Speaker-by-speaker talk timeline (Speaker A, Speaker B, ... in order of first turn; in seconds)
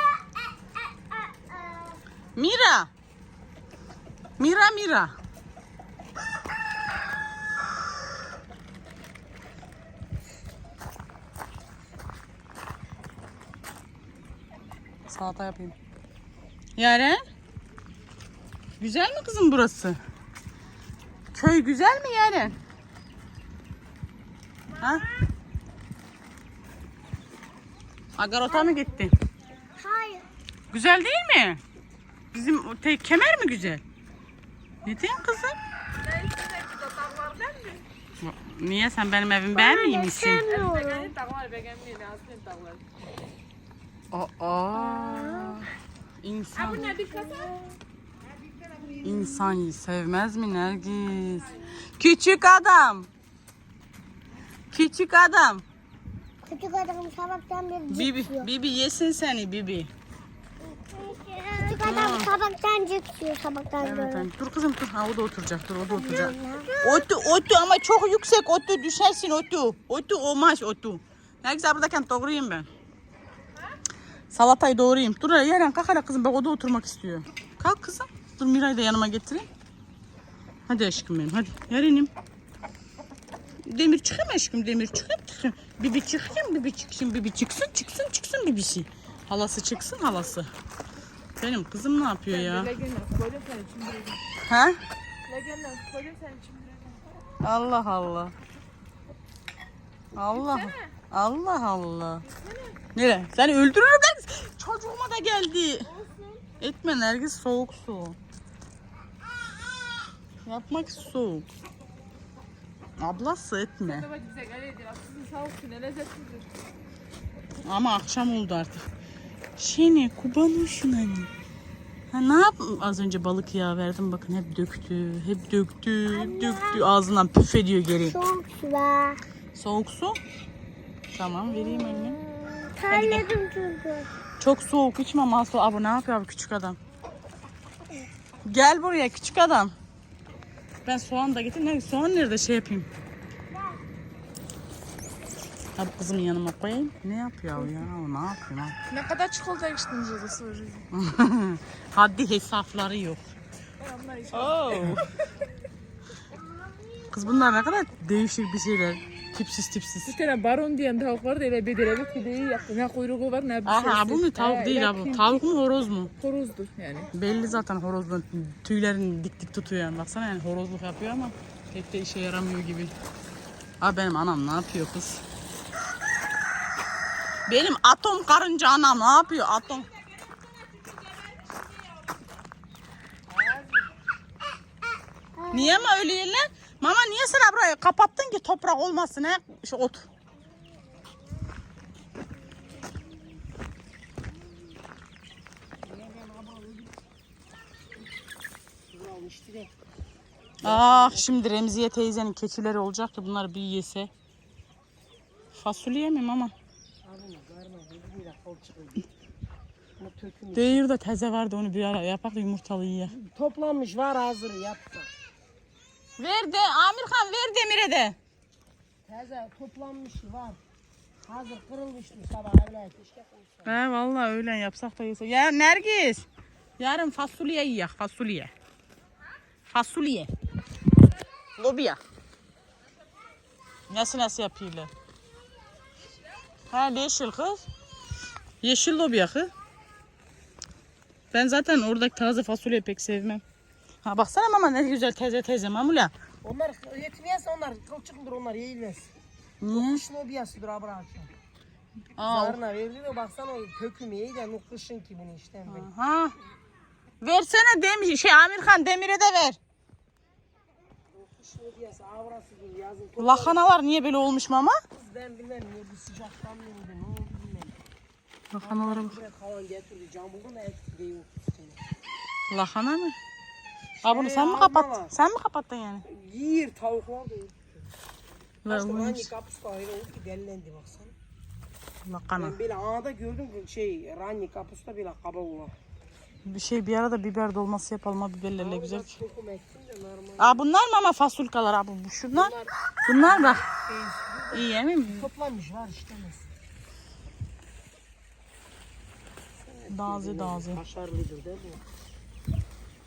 Speaker A: 1.1-2.0, 29.8-30.3, 39.5-41.1, 45.0-45.5, 47.0-47.5, 56.5-58.5, 60.7-64.3, 65.9-67.0, 126.1-126.8, 128.1-129.2, 132.7-134.1, 185.4-185.8
Speaker B: 2.4-2.9, 4.4-5.1, 15.1-15.8, 16.8-17.2, 18.8-20.0, 21.3-22.6, 24.8-25.1, 28.2-29.1, 30.7-31.6, 32.3-33.8, 34.9-35.6, 38.2-40.4, 44.1-45.7, 46.2-46.9, 49.0-53.1, 54.7-55.6, 57.9-59.9, 61.7-62.3, 63.8-72.7, 74.3-79.5, 80.7-82.1, 83.7-90.5, 91.4-92.7, 94.5-94.8, 97.4-98.3, 100.2-102.2, 103.0-105.9, 106.6-108.2, 110.5-111.5, 113.0-114.1, 117.7-118.9, 119.6-121.3, 122.1-128.2, 129.5-130.2, 131.2-132.2, 132.9-133.3, 134.4-136.8, 138.4-139.8, 140.9-142.9, 145.8-148.8, 150.9-153.2, 154.6-155.0, 157.1-160.1, 163.7-166.1, 167.1-172.9, 173.8-175.2, 177.5-179.9, 185.5-190.1, 200.6-204.1, 205.5-206.5, 210.5-213.1, 216.2-218.2, 223.7-226.3, 226.8-228.5, 229.7-230.3, 231.6-232.0, 233.9-234.9, 236.7-237.7, 238.6-239.5, 241.3-243.4, 244.0-246.1, 249.6-250.0, 252.2-252.6, 255.7-256.4, 257.2-259.6, 263.2-264.8, 268.5-269.2, 272.5-273.2, 274.0-276.1, 278.6-279.3, 282.0-282.6, 286.4-289.2, 290.4-292.5, 293.1-293.6, 294.5-295.3, 299.9-300.8
Speaker C: 36.0-37.8, 40.2-42.8, 46.6-47.5, 92.3-94.2, 95.3-97.1, 100.3-100.9, 102.2-102.8, 113.9-116.5, 148.9-150.9, 153.8-155.1, 160.1-165.4, 166.2-167.1, 180.9-181.6
Speaker D: 183.3-183.9, 195.8-197.0, 198.9-199.7, 200.6-201.4, 207.0-209.1, 210.0-210.8, 213.1-215.1, 219.1-220.6, 221.2-223.8, 246.4-249.1, 249.7-251.3, 252.2-255.9, 261.1-263.6, 264.9-267.8, 268.6-271.8, 274.0-275.1, 276.1-277.7, 278.7-281.1, 282.4-285.7, 288.6-290.6, 292.3-296.5, 299.6-301.8